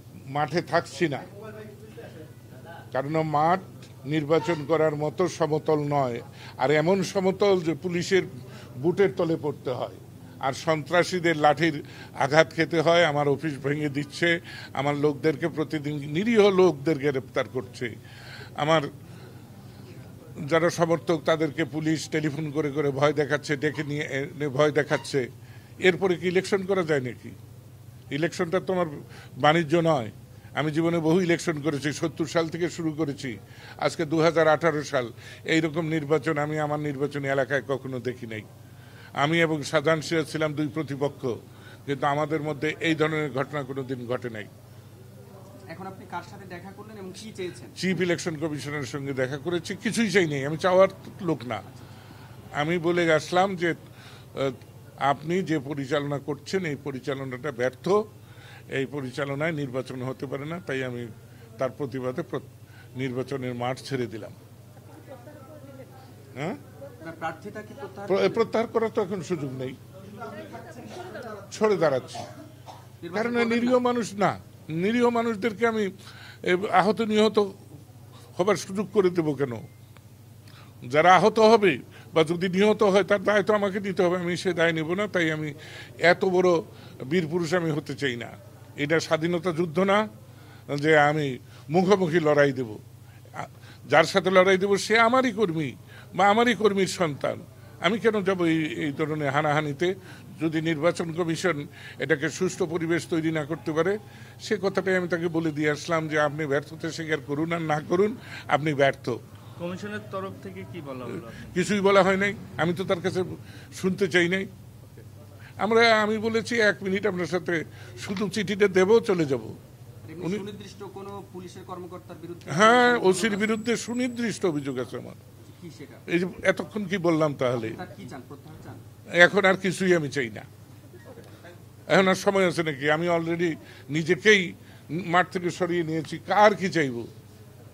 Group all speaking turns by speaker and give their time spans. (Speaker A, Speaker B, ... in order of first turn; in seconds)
Speaker A: 0.3-1.3, 2.9-8.3, 8.8-17.9, 18.6-18.9, 20.4-25.2, 25.8-27.3, 28.1-28.9, 29.4-38.5, 39.2-41.3, 41.9-44.5, 47.8-51.6, 52.6-53.8, 54.3-58.0, 58.7-64.3, 68.1-69.8, 71.5-72.3, 73.1-75.9, 76.4-77.5, 78.4-79.6, 80.8-90.0, 90.7-92.8, 93.3-109.2, 111.4-114.5, 115.6-119.5, 122.5-125.2, 126.1-127.8, 129.2-130.4, 131.9-137.1
Speaker B: 45.7-47.9, 67.0-68.5, 73.0-73.8, 120.0-123.5, 125.5-126.0, 127.5-128.8
Speaker C: 109.6-111.5